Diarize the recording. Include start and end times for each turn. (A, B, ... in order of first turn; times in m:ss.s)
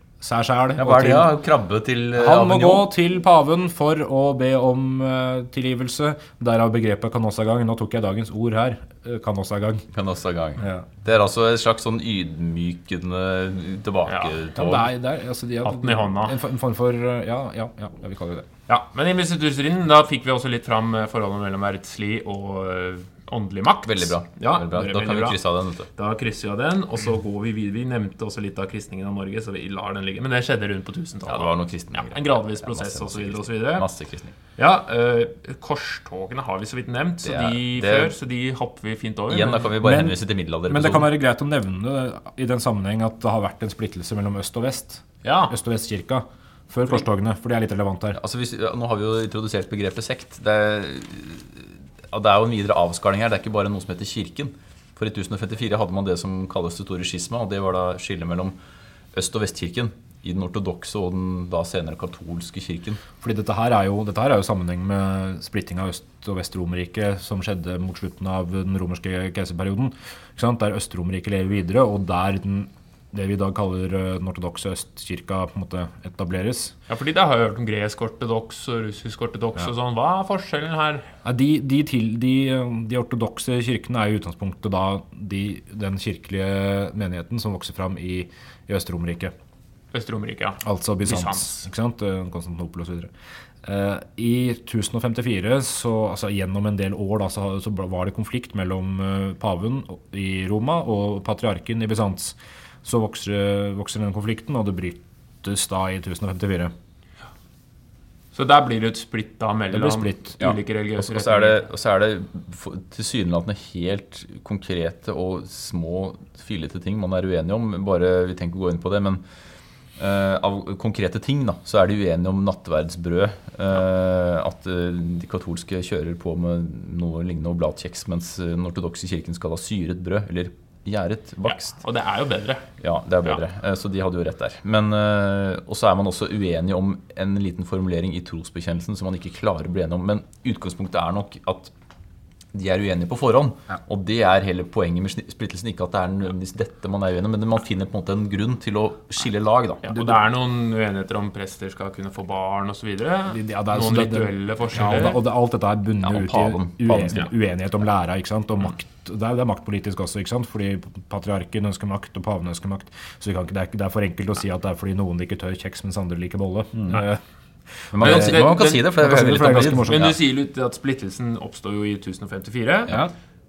0:00.2-0:01.3 A
0:00.8-0:02.9 B
0:02.1-0:09.8 A
0:09.9-0:14.9 B
0:10.6-0:10.9 A
0:14.1-0:14.4 C
0:14.6-0:18.5 A
0:15.6-0:16.4 C
0:18.7-0:25.4 C
0:23.8-0:25.9 B
0:26.0-0:33.9 C
0:31.3-0:34.4 B
0:34.6-0:39.7 C
0:37.2-0:38.1 B
0:39.3-0:41.1 B
0:39.8-0:48.2 A
0:45.2-0:45.6 C
0:48.1-0:58.6 B
0:59.1-1:03.0 B
1:03.2-1:16.7 A
1:16.9-1:21.1 C
1:21.2-1:29.3 A
1:29.9-1:31.6 C
1:30.6-1:33.1 A
1:33.6-1:46.7 A
1:48.3-1:51.6 C
1:49.7-1:50.4 A
1:50.4-1:59.2 B
2:00.0-2:11.8 B
2:11.5-2:12.7 C
2:12.8-2:21.7 B
2:22.5-2:30.1 B
2:29.8-2:35.2 C
2:33.3-2:47.2 A
2:36.0-2:37.3 B
2:46.8-2:47.0 B
2:47.7-2:50.1 A
2:47.9-2:50.2 B
2:48.0-2:48.8 C
2:49.8-2:53.0 C